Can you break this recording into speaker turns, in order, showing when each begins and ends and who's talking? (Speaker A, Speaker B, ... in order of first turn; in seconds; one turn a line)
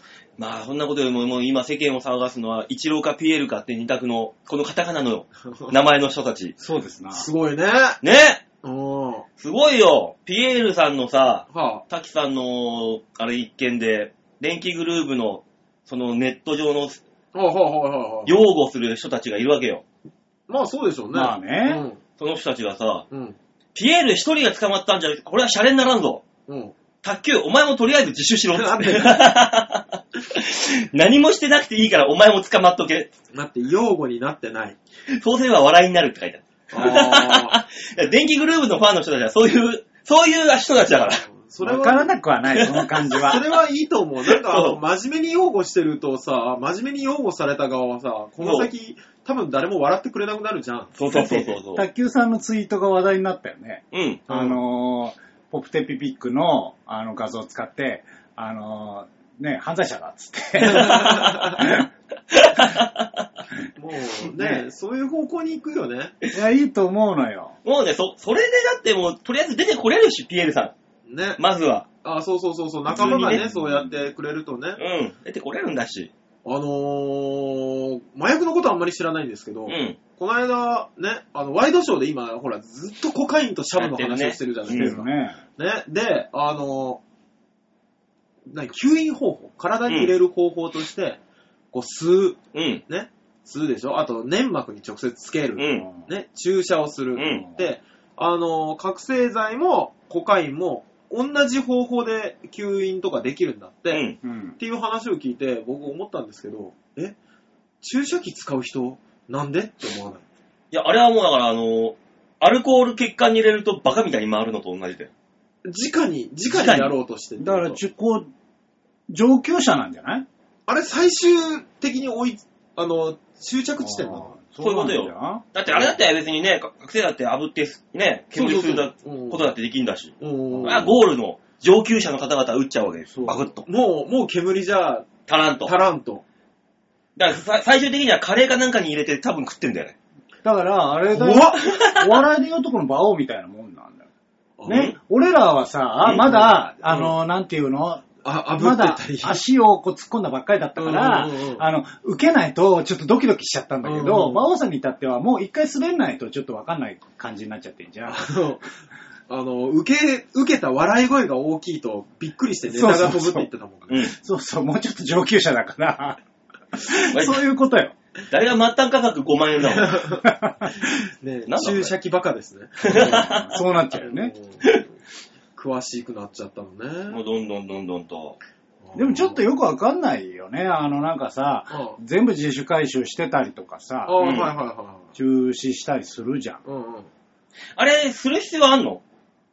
Speaker A: 0.4-6.5
Speaker B: 5.5-5.8
Speaker C: 6.6-7.3
Speaker B: 7.1-8.0
Speaker A: 8.0-8.4
Speaker B: 8.6-9.3
Speaker A: 9.4-17.0
Speaker B: 11.5-11.8
Speaker B: 17.3-18.4
Speaker A: 18.3-19.8
Speaker B: 20.5-22.0
Speaker C: 21.1-21.9
Speaker A: 22.2-23.1
Speaker B: 23.1-23.4
Speaker A: 23.8-26.2
Speaker B: 26.5-26.8
Speaker A: 27.0-33.1
Speaker B: 28.5-29.2
Speaker B: 33.3-34.8
Speaker A: 35.1-41.2
Speaker B: 36.7-37.6
Speaker B: 41.1-42.1
Speaker C: 41.6-43.4
Speaker A: 42.5-43.4
Speaker B: 43.1-51.0
Speaker A: 44.3-44.8
Speaker A: 48.4-48.7
Speaker A: 51.0-51.9
Speaker C: 51.1-61.9
Speaker A: 53.9-54.3
Speaker B: 54.3-54.6
Speaker B: 60.6-61.6
Speaker A: 60.7-61.7
Speaker A: 62.3-63.1
Speaker B: 63.8-66.2
Speaker C: 66.3-67.6
Speaker A: 67.7-70.7
Speaker B: 71.1-71.4
Speaker A: 71.4-71.9
Speaker B: 72.0-74.8
Speaker A: 72.9-73.4
Speaker C: 72.9-73.9
Speaker A: 74.8-76.1
Speaker B: 76.5-87.0
Speaker A: 79.7-80.0
Speaker A: 83.8-85.0
Speaker C: 84.7-85.4
Speaker B: 88.5-91.2
Speaker A: 89.9-90.1
Speaker B: 91.7-104.0
Speaker A: 92.5-92.8
Speaker A: 95.6-95.9
Speaker A: 97.2-97.5
Speaker C: 97.3-97.7
Speaker A: 103.9-104.2
Speaker C: 104.2-104.6
Speaker B: 104.6-107.2
Speaker B: 107.8-110.2
Speaker A: 110.7-115.1
Speaker B: 115.7-117.8
Speaker A: 116.5-116.9
Speaker C: 117.4-118.3
Speaker C: 119.1-120.3
Speaker B: 120.7-124.3
Speaker C: 123.8-125.4
Speaker A: 124.6-133.7
Speaker B: 128.3-129.5
Speaker B: 130.2-131.0
Speaker C: 130.5-130.9
Speaker C: 133.1-133.5
Speaker B: 133.7-135.1
Speaker A: 135.3-135.7
Speaker B: 135.6-136.2
Speaker A: 137.2-139.9
Speaker C: 140.4-144.0
Speaker B: 141.1-141.6
Speaker A: 141.7-142.1
Speaker B: 144.6-144.9
Speaker A: 144.7-145.0
Speaker C: 144.7-158.3
Speaker A: 146.0-146.4
Speaker B: 146.3-147.1
Speaker B: 148.2-149.4
Speaker B: 150.8-151.6
Speaker B: 153.8-154.5
Speaker B: 158.1-158.6
Speaker B: 159.3-163.9
Speaker C: 162.7-166.2
Speaker A: 163.9-164.2
Speaker C: 166.7-167.9
Speaker A: 167.1-167.4
Speaker A: 168.3-170.1
Speaker B: 169.7-170.3
Speaker C: 170.2-170.7
Speaker B: 171.2-173.4
Speaker A: 171.5-171.9
Speaker A: 172.8-173.6
Speaker C: 172.9-174.3
Speaker B: 173.9-174.9
Speaker B: 175.6-177.2
Speaker A: 177.1-178.4
Speaker B: 178.8-179.4
Speaker C: 178.9-184.3
Speaker B: 181.7-182.0
Speaker B: 184.1-185.1
Speaker A: 184.2-184.5
Speaker C: 185.2-186.6
Speaker B: 186.7-187.1
Speaker A: 187.8-189.0